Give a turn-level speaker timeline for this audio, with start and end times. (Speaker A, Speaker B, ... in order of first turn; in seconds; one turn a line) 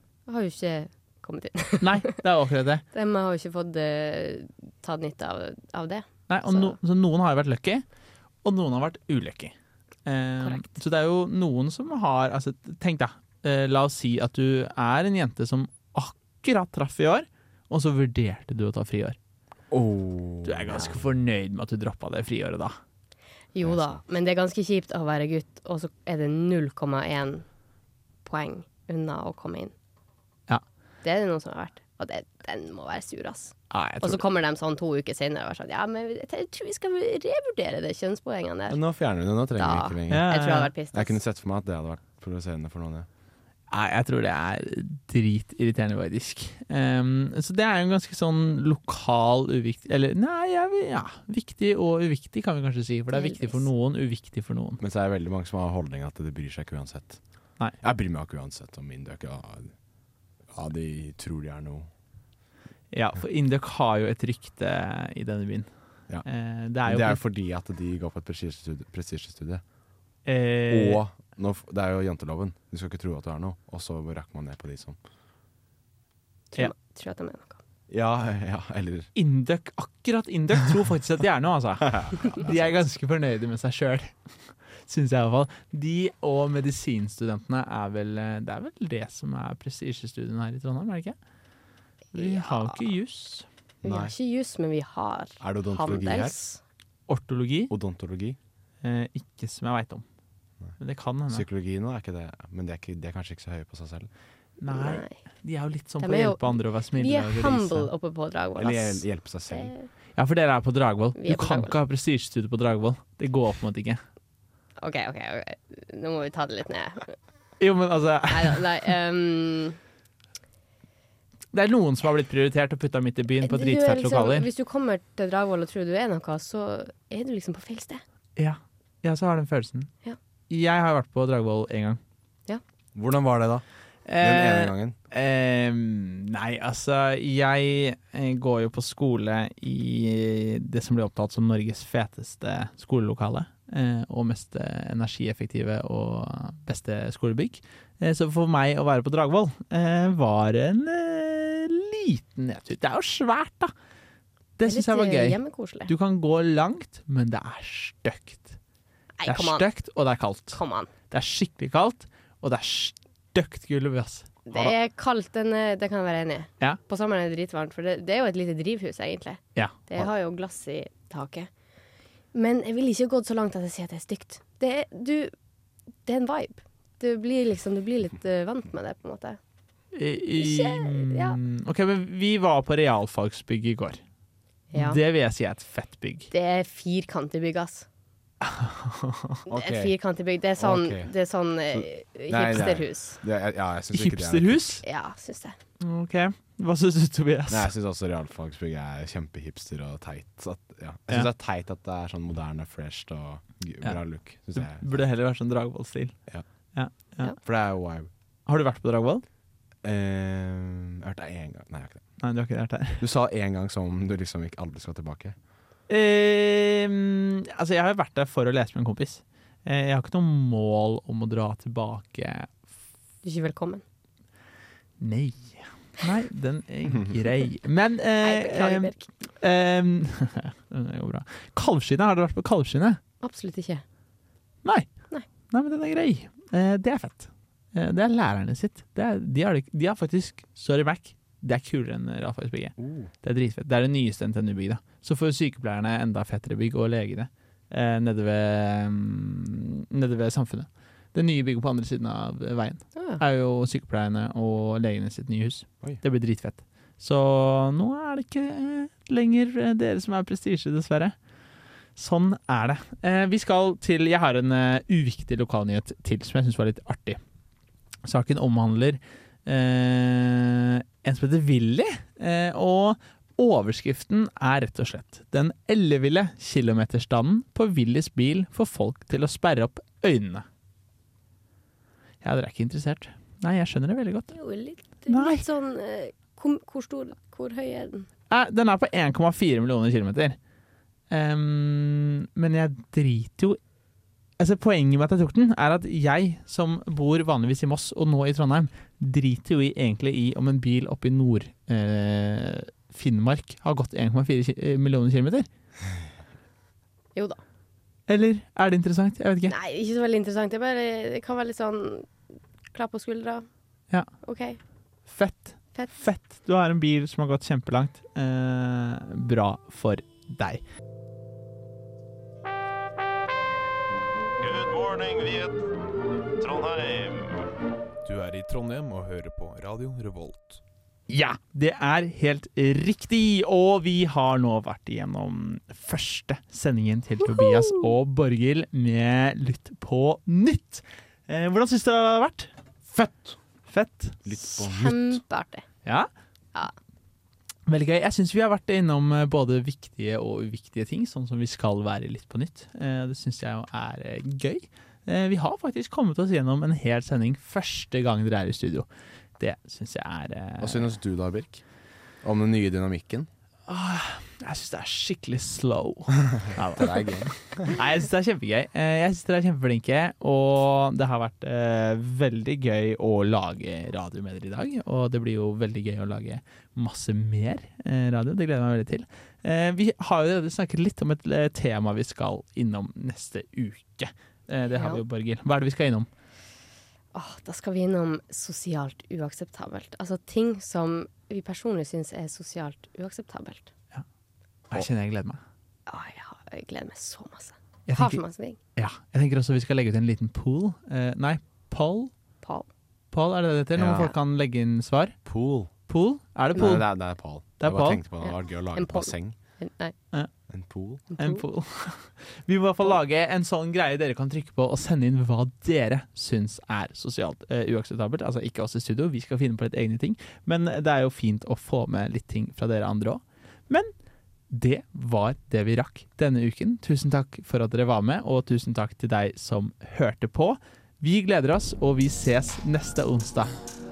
Speaker A: 0.3-2.1
Speaker B: 1.8-2.8
Speaker A: 2.9-6.8
Speaker B: 6.3-7.8
Speaker B: 8.4-9.5
Speaker B: 10.1-19.2
Speaker C: 19.7-21.0
Speaker B: 20.4-22.8
Speaker A: 23.5-27.4
Speaker C: 23.6-23.9
Speaker A: 28.2-29.7
Speaker A: 31.0-38.8
Speaker B: 33.7-34.2
Speaker C: 38.7-40.4
Speaker A: 39.5-41.2
Speaker B: 40.1-40.7
Speaker C: 40.9-43.1
Speaker B: 43.7-54.8
Speaker A: 53.1-53.7
Speaker C: 54.8-57.2
Speaker C: 57.8-59.7
Speaker C: 60.5-61.9
Speaker B: 62.9-65.7
Speaker B: 66.2-67.2
Speaker C: 66.8-69.6
Speaker B: 70.2-71.0
Speaker C: 70.7-75.0
Speaker A: 76.5-77.6
Speaker C: 77.9-79.1
Speaker B: 79.2-84.1
Speaker C: 82.0-82.5
Speaker B: 84.9-91.2
Speaker A: 92.1-92.8
Speaker B: 92.1-93.5
Speaker C: 93.8-94.1
Speaker A: 93.8-96.6
Speaker C: 95.4-96.3
Speaker B: 97.1-97.7
Speaker C: 97.7-98.4
Speaker B: 98.8-100.0
Speaker B: 100.8-101.5
Speaker C: 101.3-104.1
Speaker B: 104.6-107.9
Speaker A: 104.7-105.2
Speaker A: 106.0-109.9
Speaker C: 108.6-109.7
Speaker B: 110.2-114.0
Speaker A: 111.2-111.7
Speaker A: 114.8-117.2
Speaker B: 117.6-118.6
Speaker A: 118.3-119.8
Speaker B: 121.5-124.5
Speaker A: 123.4-128.0
Speaker B: 128.4-129.9
Speaker B: 130.5-132.0
Speaker C: 132.9-133.6
Speaker B: 134.1-153.7
Speaker C: 134.2-134.9
Speaker B: 154.6-158.6
Speaker A: 154.7-155.9
Speaker A: 159.2-159.7
Speaker B: 159.2-160.6
Speaker A: 160.5-160.9
Speaker B: 161.1-164.7
Speaker A: 164.5-171.5
Speaker A: 172.3-175.3
Speaker A: 176.1-179.4
Speaker B: 179.9-184.0
Speaker A: 180.4-181.4
Speaker A: 184.7-185.0
Speaker B: 184.7-186.3
Speaker A: 186.3-187.9
Speaker B: 188.4-189.4
Speaker C: 189.5-189.9
Speaker A: 189.5-193.2
Speaker C: 190.6-191.1
Speaker C: 191.7-194.8
Speaker B: 193.9-194.8
Speaker A: 194.8-195.6
Speaker B: 195.8-197.7
Speaker C: 197.5-204.9
Speaker B: 203.8-206.2
Speaker B: 206.7-207.3
Speaker C: 207.4-208.1
Speaker B: 208.5-209.2
Speaker C: 209.8-212.2
Speaker B: 212.2-213.0
Speaker C: 213.0-215.3
Speaker B: 215.9-222.6
Speaker A: 223.2-223.8
Speaker B: 225.0-233.0
Speaker A: 228.2-229.1
Speaker A: 233.2-233.8
Speaker B: 234.6-234.9
Speaker B: 235.5-261.1
Speaker C: 242.8-243.1
Speaker A: 252.9-253.2
Speaker B: 261.9-267.2
Speaker B: 268.0-280.4
Speaker B: 282.2-284.4
Speaker A: 284.3-288.1
Speaker B: 285.1-285.4
Speaker B: 288.3-290.4
Speaker B: 291.1-293.6
Speaker B: 294.4-305.5
Speaker A: 307.1-307.4
Speaker B: 308.1-309.5
Speaker A: 309.5-312.1
Speaker A: 312.7-313.4
Speaker A: 314.2-314.6
Speaker B: 315.1-320.6
Speaker D: 324.8-325.4
Speaker E: 328.1-330.5
Speaker D: 328.1-330.3
Speaker B: 331.1-342.5
Speaker C: 342.9-343.4
Speaker B: 343.7-344.2
Speaker C: 344.2-345.2
Speaker A: 344.6-345.6
Speaker B: 345.8-346.1
Speaker B: 347.7-358.9
Speaker B: 359.4-360.9
Speaker C: 360.6-361.6
Speaker C: 362.2-363.3
Speaker B: 363.7-386.1
Speaker C: 366.7-367.8
Speaker A: 384.7-385.0
Speaker A: 387.1-393.7
Speaker B: 394.7-395.4
Speaker A: 395.9-398.6
Speaker B: 397.9-398.2
Speaker B: 398.8-402.1
Speaker A: 402.4-402.7
Speaker B: 403.1-405.1
Speaker C: 403.7-404.1
Speaker C: 405.2-405.7
Speaker B: 405.9-406.9
Speaker C: 406.5-409.4
Speaker B: 407.6-408.0
Speaker A: 408.2-409.9
Speaker C: 410.5-411.0
Speaker A: 411.1-411.4
Speaker B: 411.1-423.9
Speaker B: 424.5-433.5